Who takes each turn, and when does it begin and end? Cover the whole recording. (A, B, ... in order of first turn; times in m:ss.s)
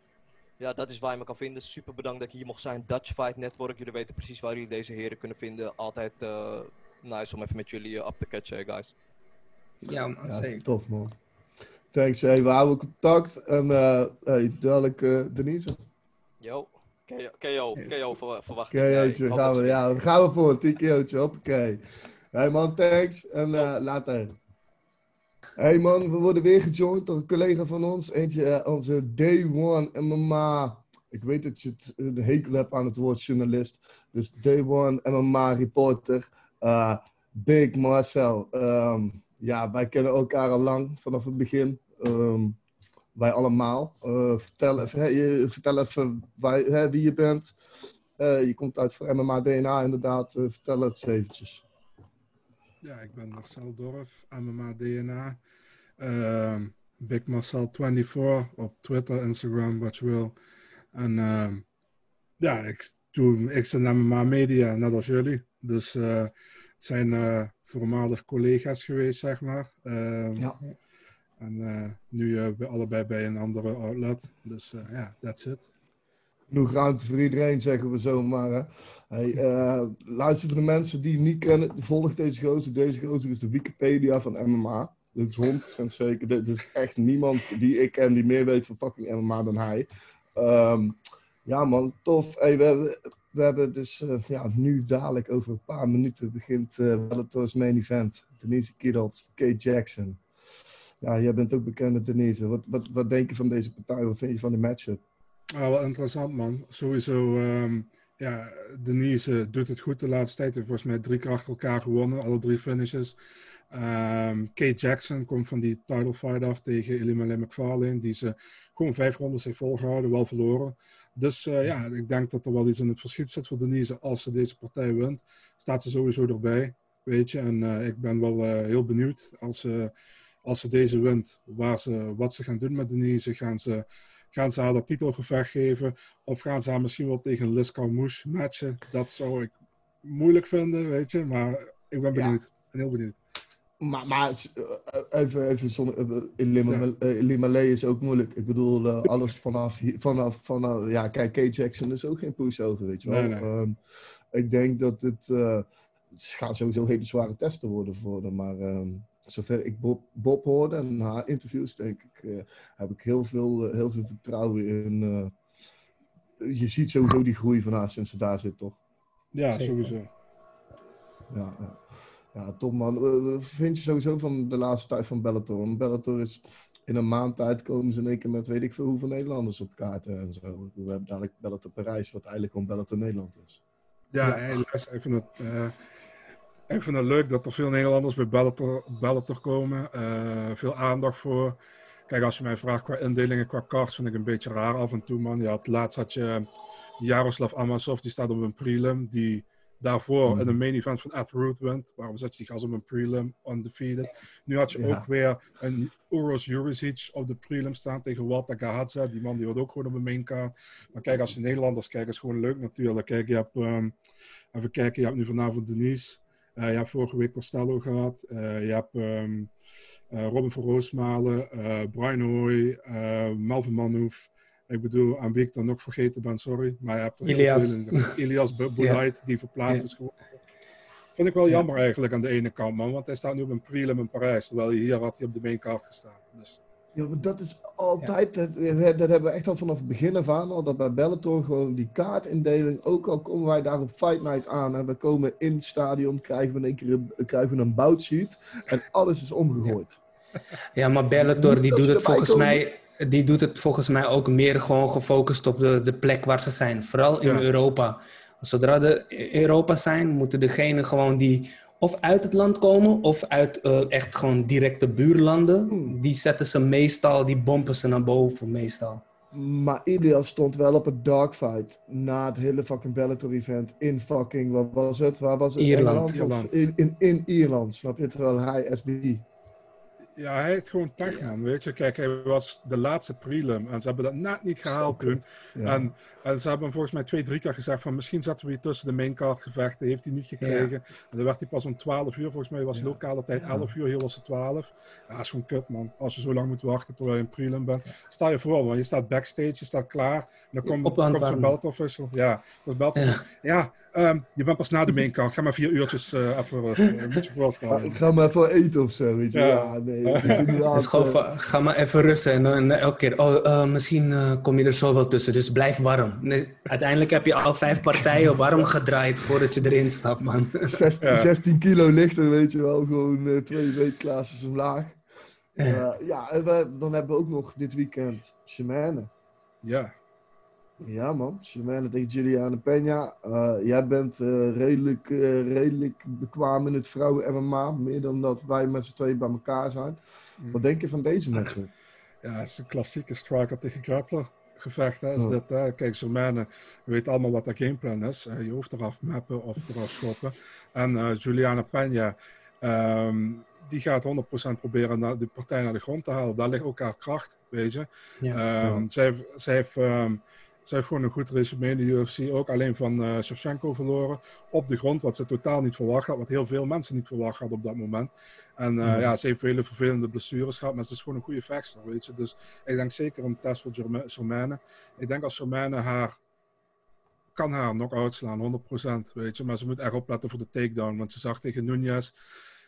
0:00.6-0:08.9 A
0:09.8-0:10.7 B
0:10.3-0:11.2 C
0:11.9-0:15.8 C
0:16.4-0:20.0 A
0:18.7-0:24.4 C
0:25.6-0:42.6 C
0:43.2-0:47.6 C
0:48.2-0:51.6 C
0:52.8-0:55.4 D
0:56.0-1:00.4 D
1:00.9-1:01.6 D
1:02.4-1:10.5 D
1:11.4-1:15.7 D
1:16.5-1:40.2 C
1:41.0-1:45.0 C
1:45.6-1:53.2 D
1:53.7-2:09.9 D
2:10.4-2:23.2 D
2:22.1-2:22.4 C
2:23.8-2:33.8 C
2:33.1-2:33.5 D
2:34.3-2:45.4 C
2:46.4-2:48.8 C
2:49.3-2:50.1 D
2:49.6-2:49.9 B
2:51.3-3:03.6 C
3:04.1-3:05.8 D
3:04.2-3:04.6 C
3:06.7-3:16.5 D
3:17.0-3:33.9 D
3:20.2-3:20.6 C
3:24.7-3:25.1 C
3:34.5-3:39.5 D
3:40.1-3:50.2 D
3:47.2-3:48.2 B
3:51.2-3:56.6 D
3:56.9-4:10.0 C
4:10.8-4:29.0 B
4:11.3-4:12.6 C
4:25.7-4:26.0 C
4:29.3-4:39.3 C
4:35.6-4:36.2 B
4:36.1-4:36.6 D
4:40.2-5:08.0 D
4:41.0-4:41.3 B
4:44.6-4:45.9 C
4:50.4-4:50.7 B
4:52.7-4:53.7 C
5:00.6-5:01.6 B
5:03.0-5:03.2 B
5:06.8-5:07.1 B
5:07.7-5:11.2 C
5:09.3-5:10.6 D
5:10.7-5:20.8 B
5:20.7-5:25.0 C
5:21.0-5:21.3 D
5:25.6-5:29.1 C
5:29.6-5:29.9 D
5:30.8-5:40.0 C
5:40.5-5:41.7 C
5:42.2-6:16.2 D
5:58.6-5:58.9 C
6:08.8-6:09.1 C
6:17.3-6:22.1 D